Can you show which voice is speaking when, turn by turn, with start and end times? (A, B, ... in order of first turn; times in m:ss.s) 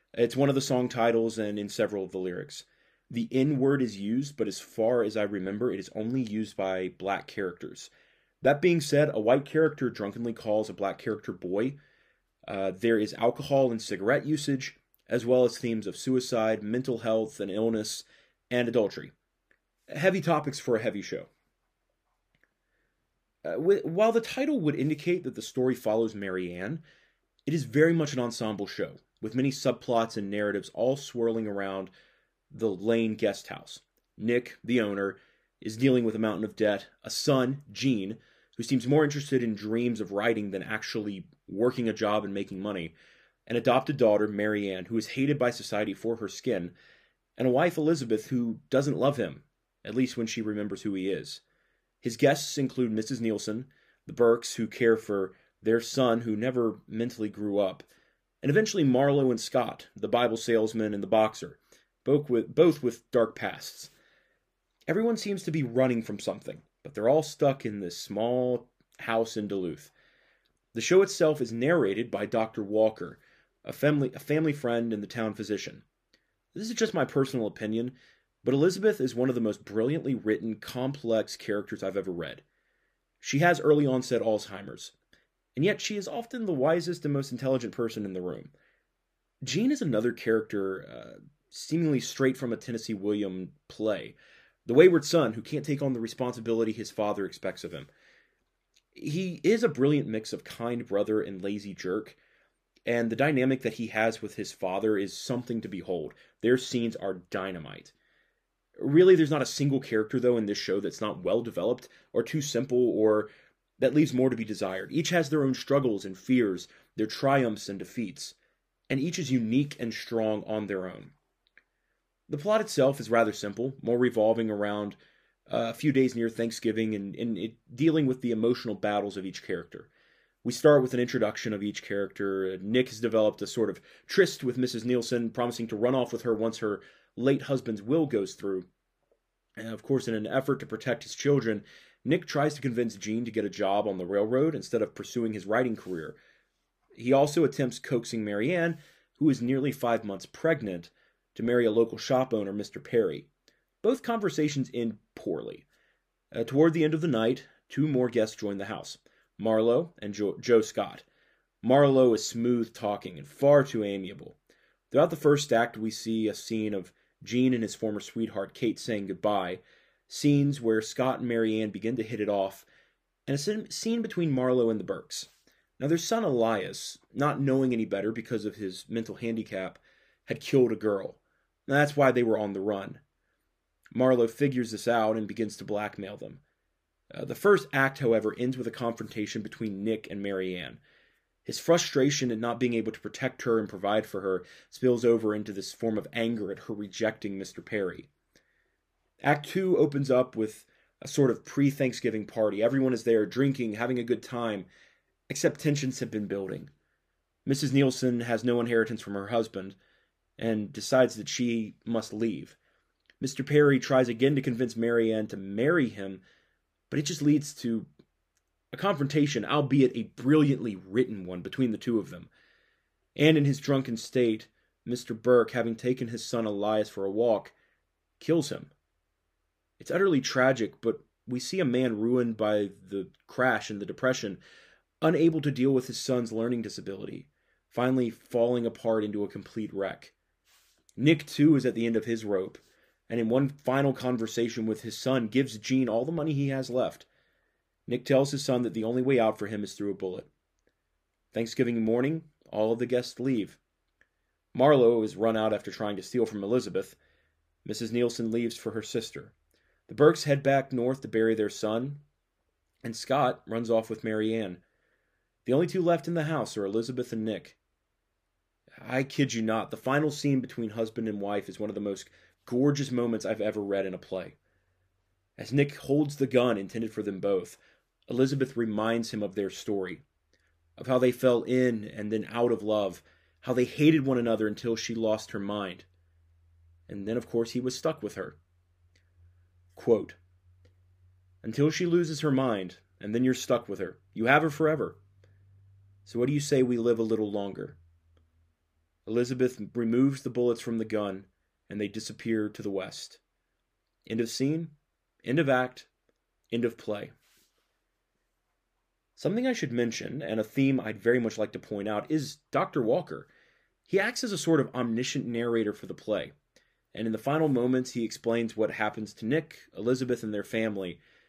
0:00.2-0:11.8 A
0:12.5-0:19.1 A
0:19.9-0:21.3 A
0:23.4-0:26.8 A
0:27.5-0:31.9 A
0:32.5-0:43.0 A
0:43.5-0:46.7 A
0:47.4-0:51.4 A
0:52.0-0:57.9 A
0:58.4-1:03.9 A
1:04.9-1:09.9 A
1:10.7-1:15.8 A
1:16.6-1:22.4 A
1:23.2-1:25.0 A
1:25.6-1:28.5 A
1:29.4-1:37.9 A
1:39.0-1:42.2 A
1:42.9-1:47.9 A
1:48.8-1:58.4 A
1:58.9-2:01.1 A
2:02.3-2:05.0 A
2:05.5-2:09.9 A
2:10.4-2:18.7 A
2:19.6-2:26.2 A
2:27.0-2:33.3 A
2:33.8-2:35.7 A
2:36.3-2:41.0 A
2:41.6-2:44.4 A
2:44.9-2:52.7 A
2:53.3-3:03.0 A
3:03.9-3:06.4 A
3:07.1-3:10.8 A
3:11.4-3:18.1 A
3:19.2-3:24.7 A
3:25.3-3:26.7 A
3:27.4-3:29.8 A
3:30.4-3:32.6 A
3:33.2-3:36.2 A
3:36.9-3:37.9 A
3:38.7-3:42.3 A
3:43.2-3:47.5 A
3:48.2-3:48.7 A
3:49.8-3:54.4 A
3:55.0-4:00.2 A
4:01.0-4:07.1 A
4:07.9-4:10.3 A
4:11.3-4:13.6 A
4:14.6-4:17.0 A
4:17.6-4:19.4 A
4:19.9-4:22.0 A
4:22.8-4:24.6 A
4:25.4-4:27.6 A
4:28.8-4:34.4 A
4:35.4-4:40.0 A
4:40.8-4:45.9 A
4:46.9-4:48.4 A
4:49.8-4:50.2 A
4:51.4-4:55.0 A
4:56.1-4:57.8 A
4:59.1-5:03.2 A
5:04.1-5:05.9 A
5:06.5-5:07.1 A
5:09.2-5:13.3 A
5:13.9-5:16.3 A
5:16.9-5:21.0 A